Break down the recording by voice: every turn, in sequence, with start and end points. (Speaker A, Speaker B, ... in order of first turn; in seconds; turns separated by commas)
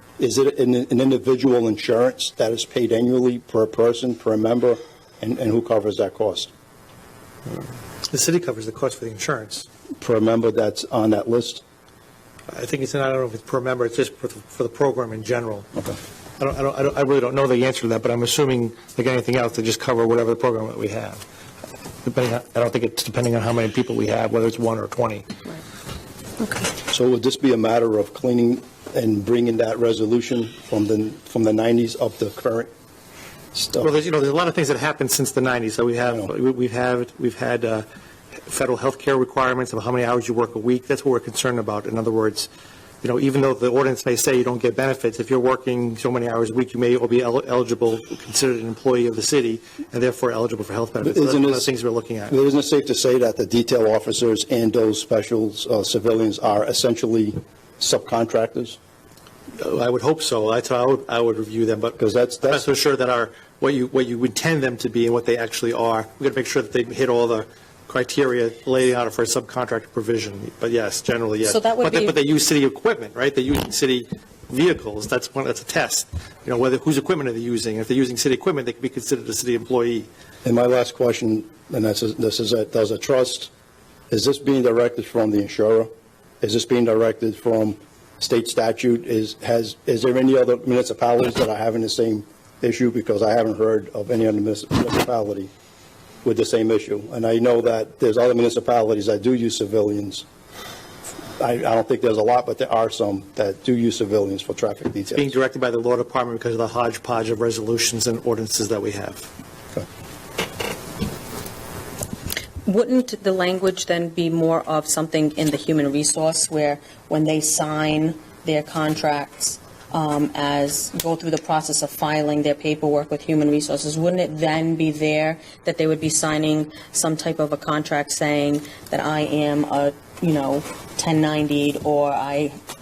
Speaker A: 0.2-6.5, Speaker B: 8.1-9.6, Speaker A: 10.0-11.6, Speaker B: 12.5-15.7, Speaker B: 16.4-21.2, Speaker B: 22.0-25.3, Speaker A: 26.9-32.7, Speaker A: 33.5-33.9, Speaker B: 33.8-37.9, Speaker B: 38.5-42.5, Speaker B: 43.0-52.4, Speaker A: 51.0-51.7, Speaker A: 52.3-58.8, Speaker B: 59.6-80.1, Speaker A: 62.0-62.6, Speaker C: 71.4-72.2, Speaker A: 80.4-83.5, Speaker A: 84.1-85.9, Speaker A: 86.4-95.5, Speaker A: 96.2-100.3, Speaker A: 101.4-105.3, Speaker B: 105.2-109.3, Speaker C: 112.7-132.6